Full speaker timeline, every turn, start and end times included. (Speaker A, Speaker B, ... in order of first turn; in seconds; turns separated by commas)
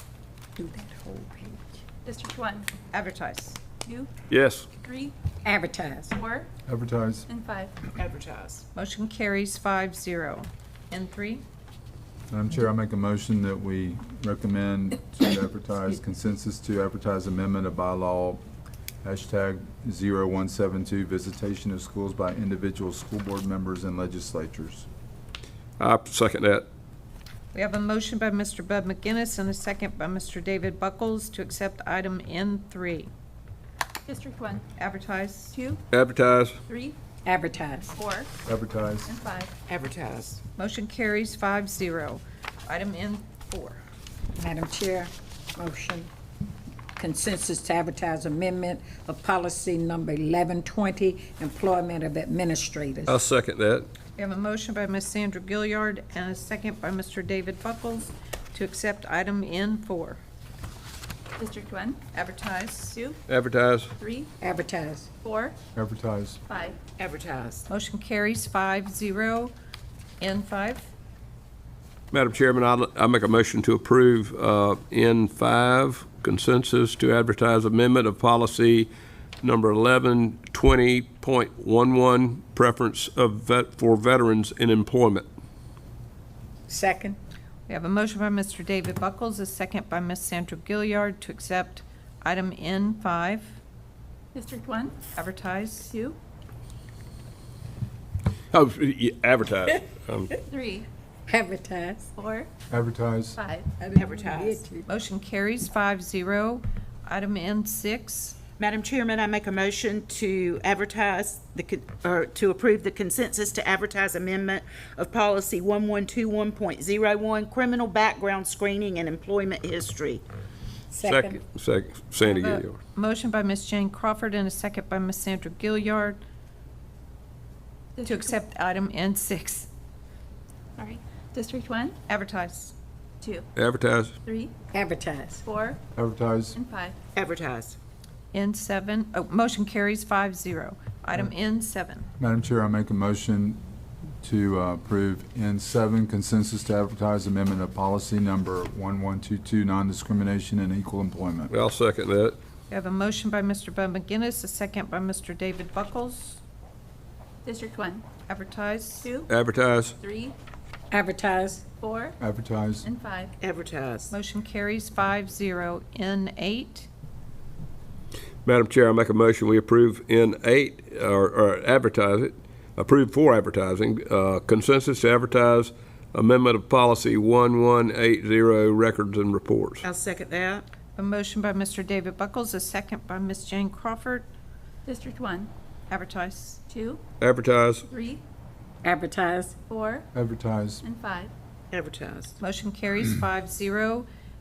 Speaker A: 0.6-1.8, Speaker B: 2.0-2.7, Speaker C: 2.9-3.6, Speaker B: 3.8-4.1, Speaker D: 4.3-4.7, Speaker B: 4.7-5.1, Speaker A: 5.4-6.2, Speaker B: 6.1-6.5, Speaker E: 6.7-7.3, Speaker B: 7.3-7.9, Speaker F: 8.0-8.7, Speaker C: 8.7-11.4, Speaker E: 12.3-18.4, Speaker E: 19.0-24.9, Speaker D: 25.8-26.6, Speaker C: 27.5-33.1, Speaker B: 34.0-34.6, Speaker C: 34.8-35.5, Speaker B: 35.5-35.8, Speaker D: 35.9-36.6, Speaker B: 36.6-37.0, Speaker A: 37.2-37.9, Speaker B: 38.0-38.3, Speaker E: 38.5-39.1, Speaker B: 39.0-39.5, Speaker F: 39.7-40.4, Speaker C: 40.6-43.8, Speaker A: 44.4-46.1, Speaker A: 47.0-53.2, Speaker D: 53.1-53.9, Speaker C: 54.2-60.2, Speaker B: 61.4-62.0, Speaker C: 62.1-63.0, Speaker B: 62.9-63.2, Speaker D: 63.3-63.9, Speaker B: 64.0-64.3, Speaker A: 64.4-65.1, Speaker B: 65.2-65.5, Speaker E: 65.7-66.4, Speaker B: 66.5-66.8, Speaker F: 67.0-67.7, Speaker C: 67.7-69.5, Speaker C: 70.2-70.9, Speaker D: 72.1-78.9, Speaker D: 79.4-85.2, Speaker A: 86.7-87.2, Speaker C: 87.7-93.6, Speaker B: 94.3-95.0, Speaker C: 95.1-95.9, Speaker B: 95.9-96.2, Speaker D: 98.5-100.3, Speaker B: 100.5-100.9, Speaker A: 101.3-102.1, Speaker B: 102.2-102.5, Speaker E: 102.7-103.4, Speaker B: 103.3-103.8, Speaker A: 103.8-104.9, Speaker F: 103.9-104.6, Speaker C: 104.9-108.3, Speaker F: 108.6-120.2, Speaker A: 120.9-121.4, Speaker D: 121.0-122.8, Speaker C: 122.2-126.2, Speaker B: 128.0-128.4, Speaker C: 128.1-129.7, Speaker B: 130.8-132.0, Speaker C: 132.1-132.7, Speaker B: 133.2-133.5, Speaker D: 133.6-134.1, Speaker B: 134.2-134.5, Speaker A: 134.7-135.4, Speaker B: 135.4-135.8, Speaker E: 135.9-136.6, Speaker B: 136.5-136.9, Speaker F: 137.1-137.8, Speaker C: 138.3-142.1, Speaker E: 142.2-143.6, Speaker E: 144.2-151.5, Speaker D: 151.5-152.3, Speaker C: 152.7-156.4, Speaker B: 157.4-158.0, Speaker C: 158.3-159.1, Speaker B: 159.0-159.3, Speaker D: 159.3-159.9, Speaker B: 160.0-160.3, Speaker A: 160.9-161.6, Speaker B: 161.8-162.2, Speaker E: 162.2-162.9, Speaker B: 162.8-163.3, Speaker F: 163.4-164.1, Speaker C: 164.1-166.9, Speaker D: 168.4-179.8, Speaker F: 179.8-180.7, Speaker C: 180.9-184.3, Speaker B: 184.8-185.5, Speaker C: 185.9-186.6, Speaker B: 186.7-187.0, Speaker D: 187.2-187.8, Speaker B: 187.9-188.2, Speaker A: 188.8-189.6, Speaker B: 189.7-190.1, Speaker E: 190.1-190.8, Speaker B: 190.8-191.3, Speaker F: 191.7-192.4, Speaker C: 192.4-194.1